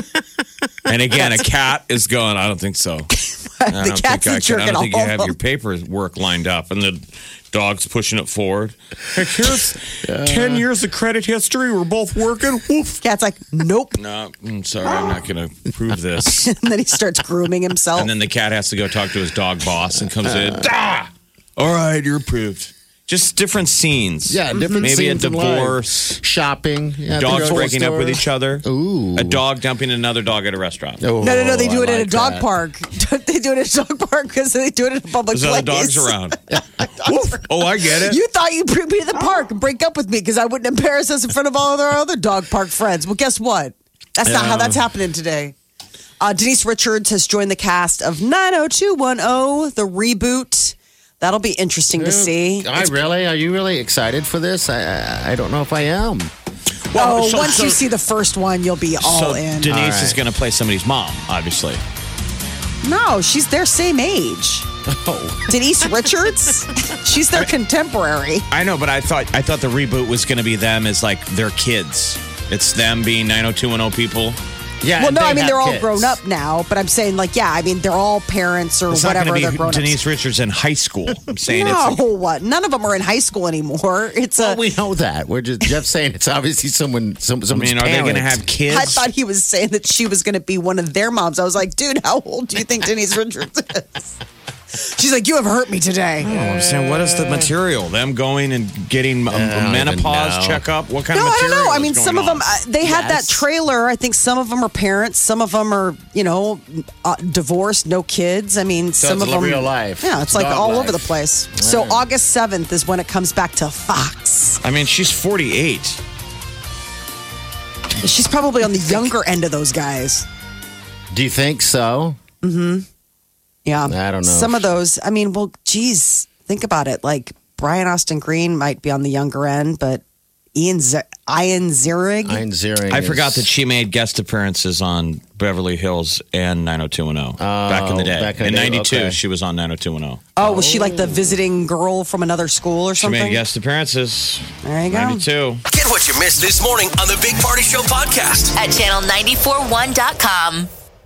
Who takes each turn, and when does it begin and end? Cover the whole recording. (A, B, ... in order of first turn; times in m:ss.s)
0:00.9-0:03.1 A
0:03.1-0:05.4 B
0:03.7-0:13.0 A
0:10.0-0:10.7 C
0:13.0-0:14.0 B
0:14.0-0:16.5 A
0:16.4-0:18.1 B
0:18.0-0:20.7 A
0:20.2-0:21.1 C
0:21.6-0:26.1 A
0:24.3-0:29.4 C
0:24.6-0:24.9 B
0:27.1-0:31.1 A
0:31.0-0:32.5 C
0:31.2-0:36.2 B
0:35.3-0:38.2 A
0:37.0-0:45.6 B
0:44.2-0:44.8 C
0:46.2-0:52.9 B
0:52.0-0:56.3 C
0:56.9-0:57.9 A
0:56.9-0:59.7 B
0:59.0-1:01.8 A
0:59.7-1:00.2 C
1:02.8-1:04.7 B
1:04.9-1:05.9 C
1:05.5-1:08.5 B
1:08.5-1:14.4 A
1:14.8-1:16.2 C
1:15.0-1:20.0 B
1:18.9-1:22.0 A
1:21.5-1:24.6 B
1:24.4-1:28.4 C
1:27.5-1:29.1 A
1:28.7-1:34.1 B
1:34.7-1:36.3 B
1:36.2-1:43.4 A
1:36.3-1:37.5 C
1:39.3-1:40.6 C
1:41.1-1:54.6 B
1:49.0-1:52.0 C
1:54.6-1:56.0 A
1:58.0-2:00.3 B
2:01.1-2:02.2 C
2:02.4-2:02.9 B
2:03.6-2:10.0 B
2:03.9-2:04.7 C
2:10.6-2:12.4 B
2:12.2-2:13.5 C
2:12.9-2:20.3 A
2:17.4-2:19.2 C
2:20.4-2:23.4 B
2:20.4-2:21.1 C
2:23.0-2:25.6 A
2:24.6-2:25.2 B
2:25.7-2:28.6 D
2:28.6-2:30.7 E